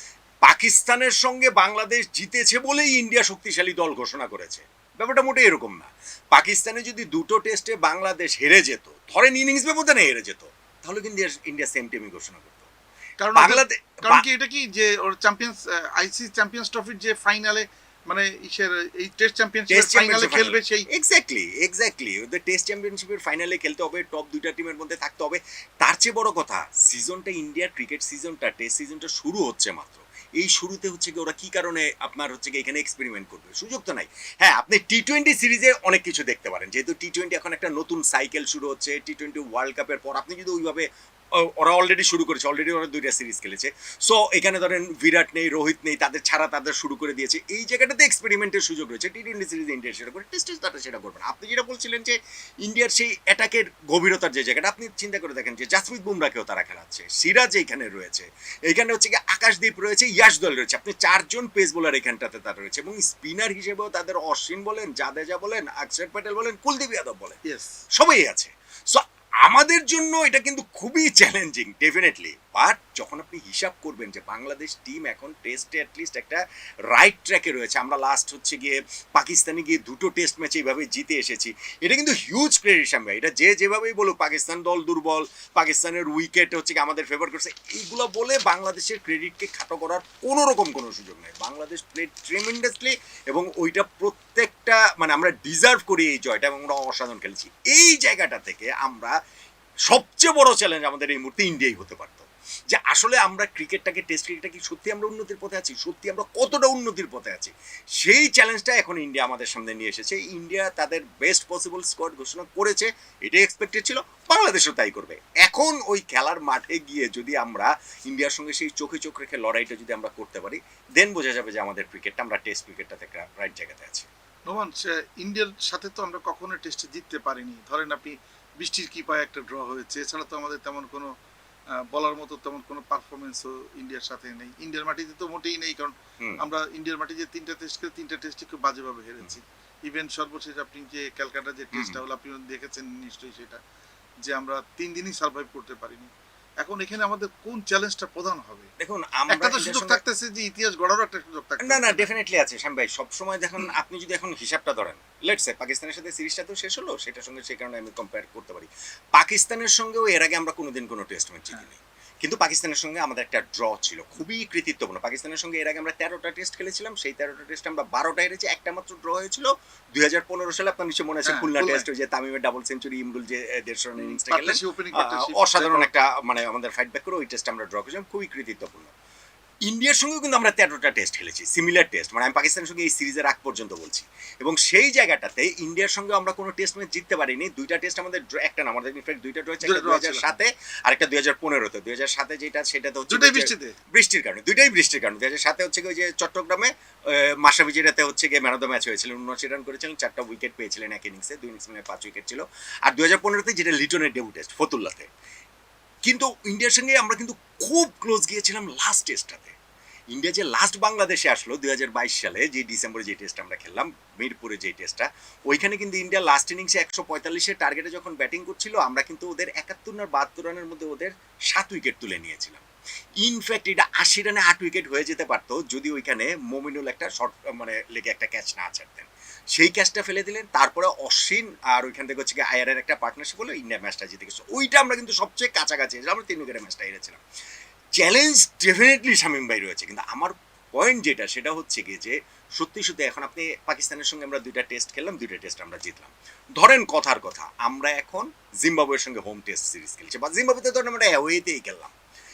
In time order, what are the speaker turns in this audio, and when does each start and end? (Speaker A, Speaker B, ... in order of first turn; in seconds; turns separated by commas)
Speaker A: 0.5-12.7, Speaker B: 13.2-20.9, Speaker A: 13.3-14.2, Speaker A: 19.7-40.9, Speaker A: 41.4-67.4, Speaker B: 67.5-67.7, Speaker A: 67.9-76.4, Speaker A: 76.9-99.1, Speaker A: 99.9-124.1, Speaker B: 124.5-131.1, Speaker B: 131.8-143.6, Speaker A: 141.7-142.0, Speaker B: 144.2-146.1, Speaker B: 146.6-148.7, Speaker A: 148.8-150.0, Speaker B: 149.3-152.1, Speaker A: 151.6-178.9, Speaker B: 171.2-171.8, Speaker B: 174.0-175.9, Speaker A: 179.7-205.1, Speaker B: 189.6-190.3, Speaker B: 193.1-193.8, Speaker A: 206.0-209.5, Speaker A: 210.1-222.6, Speaker A: 223.2-237.2, Speaker A: 238.0-251.9